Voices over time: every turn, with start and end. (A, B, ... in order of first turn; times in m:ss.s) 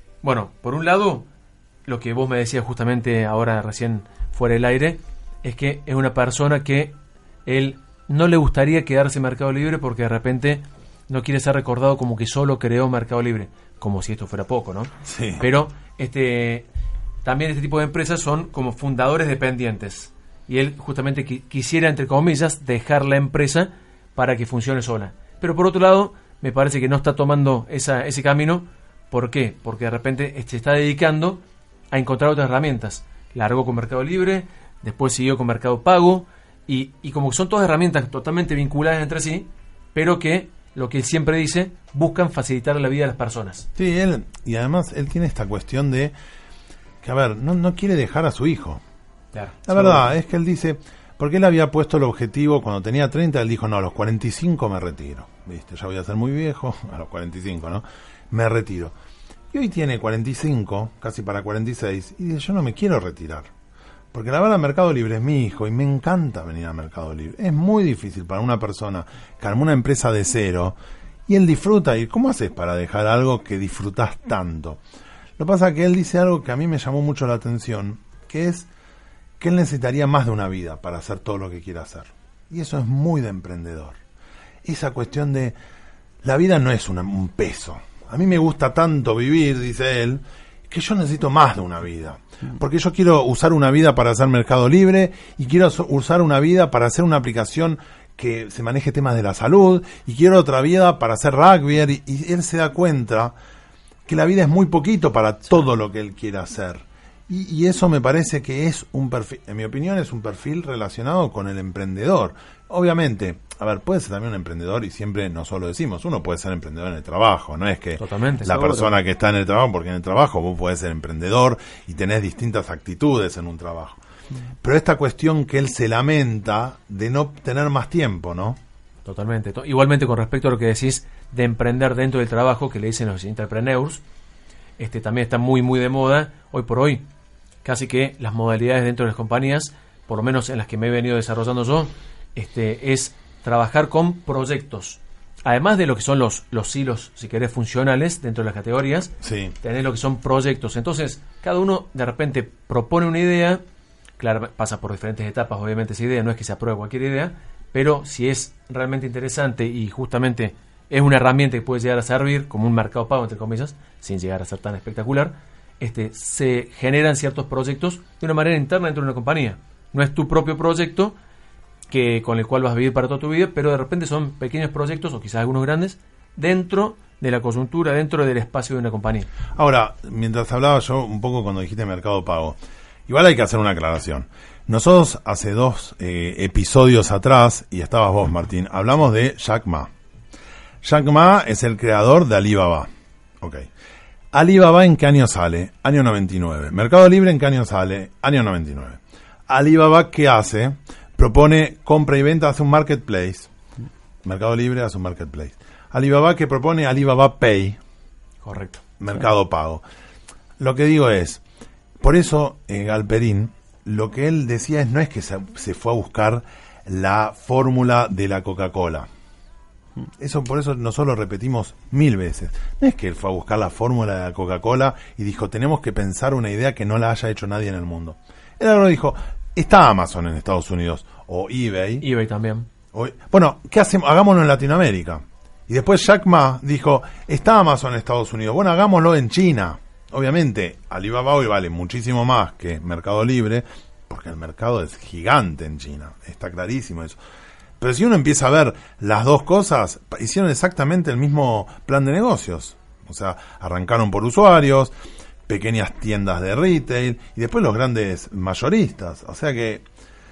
0:00.2-0:01.3 A
0:01.9-0:16.7 A
0:15.0-0:15.4 B
0:17.2-0:31.4 A
0:31.9-0:43.7 A
0:43.8-0:46.1 B
0:47.0-0:48.8 B
0:49.3-0:50.0 A
0:49.6-0:58.9 B
0:59.5-1:03.5 B
1:04.1-1:14.8 B
1:15.4-1:18.7 B
1:19.4-1:24.0 B
1:24.6-1:25.6 B
1:26.2-1:43.3 B
1:44.0-2:04.0 B
1:58.0-1:58.8 A
2:04.6-2:08.6 B
2:09.0-2:14.0 A
2:14.8-2:17.0 A
2:17.6-2:33.6 A
2:29.2-2:29.5 B
2:34.2-2:51.2 A
2:51.9-2:59.3 A
2:59.5-3:09.9 B
3:10.8-3:12.9 B
3:13.4-3:13.7 B
3:14.3-3:23.5 B
3:24.2-3:27.8 B
3:28.4-3:28.8 A
3:29.0-3:29.8 B
3:30.6-3:31.4 B
3:32.0-3:39.1 B
3:40.2-3:52.0 B
3:52.0-3:52.7 A
3:52.9-4:07.2 B
4:07.8-4:14.9 B
4:15.5-4:19.8 B